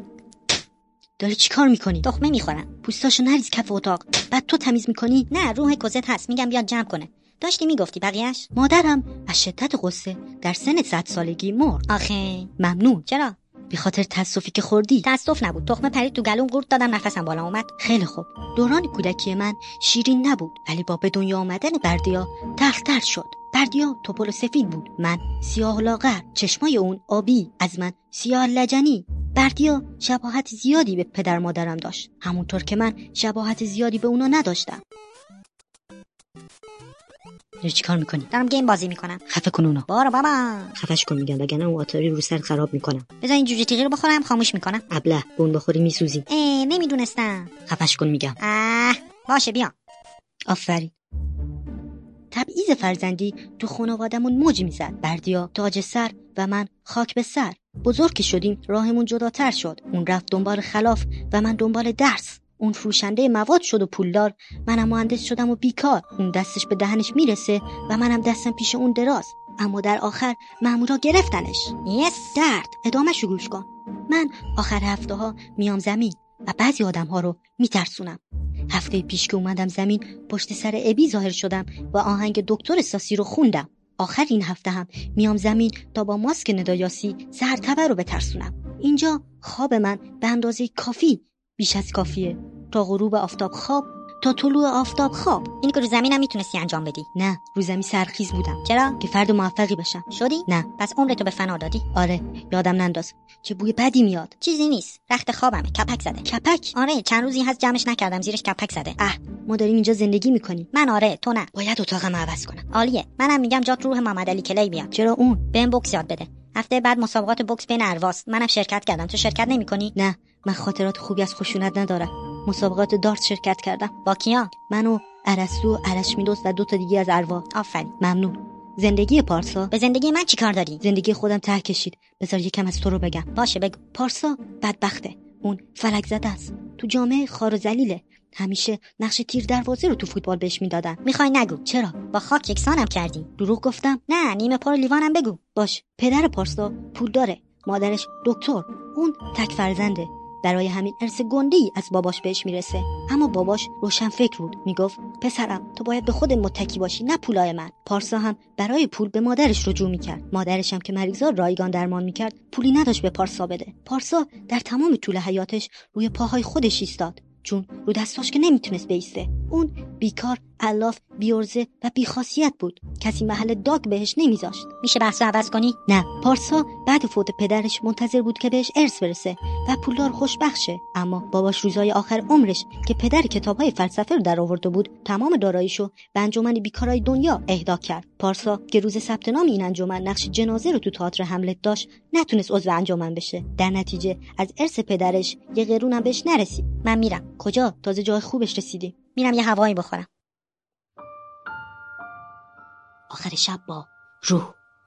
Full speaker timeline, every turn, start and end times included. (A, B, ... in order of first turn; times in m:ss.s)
0:01.2-0:02.0 A
0:02.0-0:02.7 B
0:02.8-0:05.3 A
0:05.3-0:08.5 B
0:08.5-0:11.8 A
0:11.9-0:12.5 B
0:12.6-0:13.1 A
0:13.1-0:13.4 B
0:13.7-0:15.1 A
0:15.0-0:17.7 B
0:17.8-0:34.8 A
0:37.6-0:38.3 A
0:38.3-0:39.2 B
0:39.3-0:39.9 A
0:39.9-0:40.8 B
0:40.8-0:43.1 A
0:43.2-0:44.8 B
0:44.9-0:46.2 A
0:46.3-0:47.5 B
0:47.6-0:48.4 A
0:48.4-0:49.7 B
0:50.5-0:50.9 A
0:52.3-1:11.8 A
1:11.8-1:12.4 B
1:12.3-1:18.2 A
1:18.7-1:35.5 A
1:35.6-1:37.1 B
1:37.1-1:40.7 A
1:38.6-1:39.0 B
1:40.1-1:41.8 B
1:41.9-1:44.3 A
1:44.4-1:49.0 B
1:46.2-1:46.7 A
1:49.0-1:50.7 A
1:50.7-1:51.5 B
1:51.5-1:52.6 A
1:52.7-1:54.9 B
1:54.9-1:55.5 A
1:55.5-1:59.9 B
2:00.0-2:03.9 A
2:04.0-2:04.5 B
2:04.7-2:07.5 A
2:07.5-2:07.9 B
2:08.0-2:09.7 A
2:09.7-2:10.8 B
2:10.8-2:13.3 A
2:13.3-2:13.8 B
2:13.9-2:21.0 A
2:21.0-2:23.3 B
2:21.6-2:22.1 A
2:23.4-2:24.0 A
2:24.1-2:25.4 B
2:25.6-2:54.7 A
2:54.8-2:55.8 B
2:55.9-3:19.0 A
3:16.8-3:17.2 B
3:19.1-3:20.1 B
3:23.1-3:24.6 A